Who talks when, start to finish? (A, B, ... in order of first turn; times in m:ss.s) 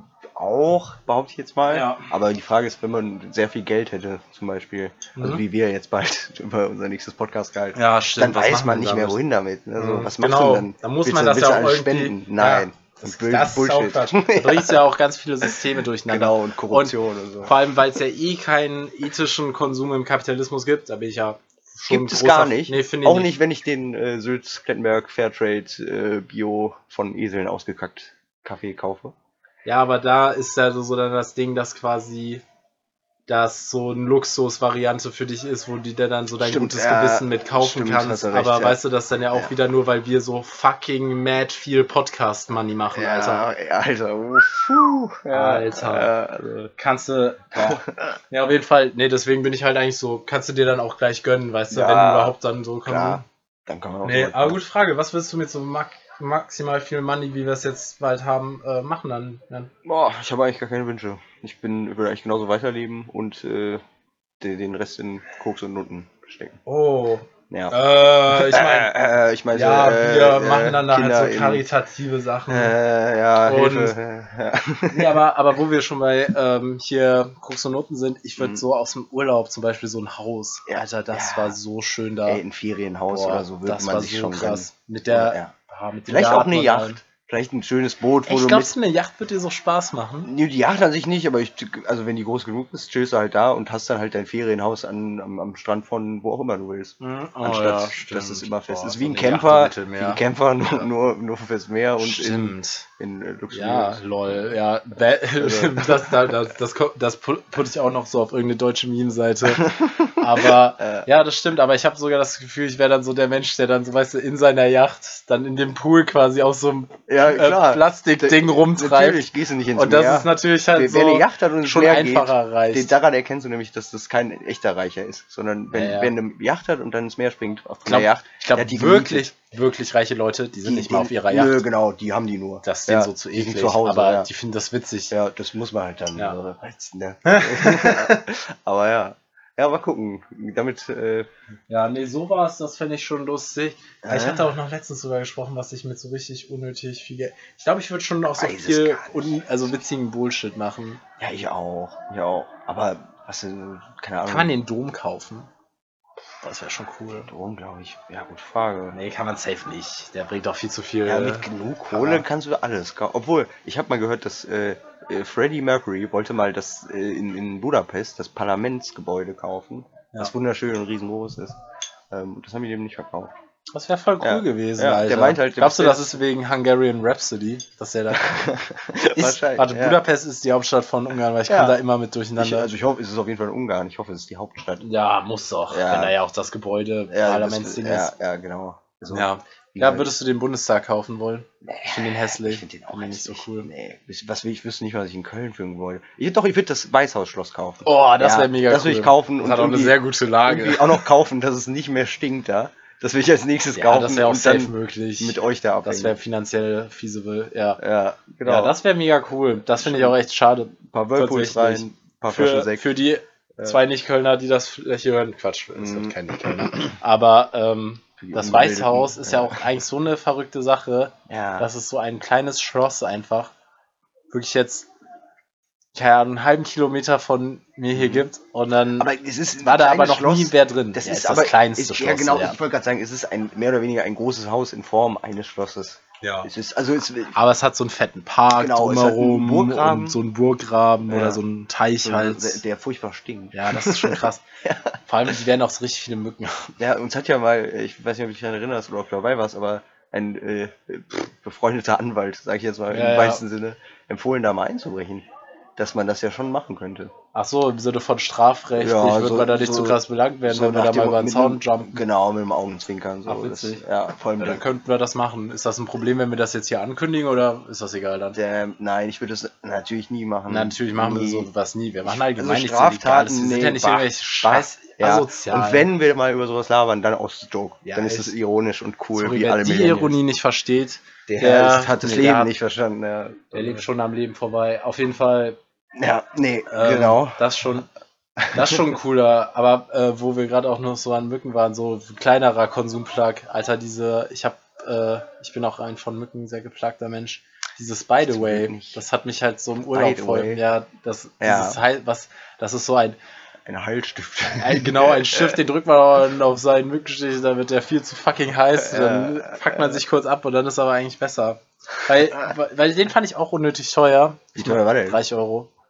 0:00.4-0:14.8 A
0:01.7-0:02.1 B
0:05.2-0:05.4 B
0:07.8-0:09.2 B
0:09.8-0:23.3 B
0:16.1-0:17.6 A
0:21.9-0:29.1 A
0:29.6-0:32.4 B
0:33.3-0:43.5 B
0:36.4-0:38.8 A
0:43.0-0:46.7 A
0:45.3-0:46.1 B
0:46.8-0:53.2 B
0:47.5-0:48.1 A
0:51.7-0:52.4 A
0:52.9-0:54.6 A
0:54.0-0:59.7 B
0:59.8-1:03.8 A
1:04.4-1:06.6 A
1:06.6-1:08.9 B
1:07.5-1:11.6 A
1:09.5-1:12.8 B
1:12.5-1:15.2 A
1:13.4-1:14.0 B
1:14.9-1:22.4 B
1:18.4-1:18.6 A
1:20.7-1:21.6 A
1:22.3-1:25.5 A
1:23.1-1:27.0 B
1:26.1-1:28.7 A
1:28.3-1:30.3 B
1:30.2-1:44.0 A
1:37.0-1:40.8 B
1:42.0-1:42.9 B
1:43.5-2:02.9 B
1:45.4-1:46.4 A
1:49.4-1:51.1 A
1:57.1-2:09.3 A
2:05.7-2:06.1 B
2:07.9-2:11.6 B
2:10.6-2:14.3 A
2:12.6-2:15.1 B
2:15.1-2:21.3 A
2:17.2-2:18.3 B
2:21.7-2:31.0 B
2:24.0-2:24.5 A
2:28.3-2:29.7 A
2:31.2-2:34.6 A
2:34.2-2:35.5 B
2:36.4-2:37.3 B
2:37.3-2:39.0 A
2:38.9-2:42.2 B
2:41.0-2:51.6 A
2:52.1-2:53.3 A
2:53.7-2:58.3 B
2:54.2-2:56.2 A
2:58.1-3:00.0 A
2:59.2-3:02.7 B
3:01.5-3:01.8 A
3:02.4-3:04.9 A
3:04.8-3:08.1 B
3:05.7-3:06.2 A
3:07.1-3:10.1 A
3:09.1-3:13.7 B
3:11.6-3:26.2 A
3:17.8-3:21.0 B
3:23.8-3:27.8 B
3:27.8-3:28.8 A
3:28.4-3:43.5 B
3:29.8-3:30.2 A
3:30.8-3:33.0 A
3:33.6-3:33.8 A
3:35.7-3:36.9 A
3:38.2-3:39.6 A
3:41.3-3:41.7 A
3:44.3-3:44.9 B
3:46.0-3:52.6 B
3:47.9-3:48.3 A
3:49.0-3:57.4 A
3:56.2-3:56.5 B
3:57.4-4:02.6 B
3:58.5-4:00.2 A
4:01.1-4:01.4 A
4:02.0-4:05.3 A
4:03.5-4:04.5 B
4:05.0-4:06.8 B
4:06.8-4:15.3 A
4:12.9-4:13.4 B
4:15.8-4:17.1 A
4:17.3-4:22.0 B
4:18.8-4:24.6 A
4:23.3-4:23.8 B
4:24.4-4:28.4 B
4:28.4-4:31.5 A
4:30.5-4:35.9 B
4:32.0-4:40.2 A
4:37.8-4:38.3 B
4:39.2-4:42.5 B
4:41.3-4:43.8 A
4:43.5-4:45.6 B
4:46.0-4:47.4 A
4:46.7-4:47.9 B
4:48.4-4:48.8 A
4:48.5-5:03.2 B
4:58.2-4:59.0 A
4:59.9-5:00.6 A
5:01.4-5:01.8 A
5:03.7-5:05.6 A
5:04.5-5:15.7 B
5:08.8-5:10.0 A
5:14.6-5:15.2 A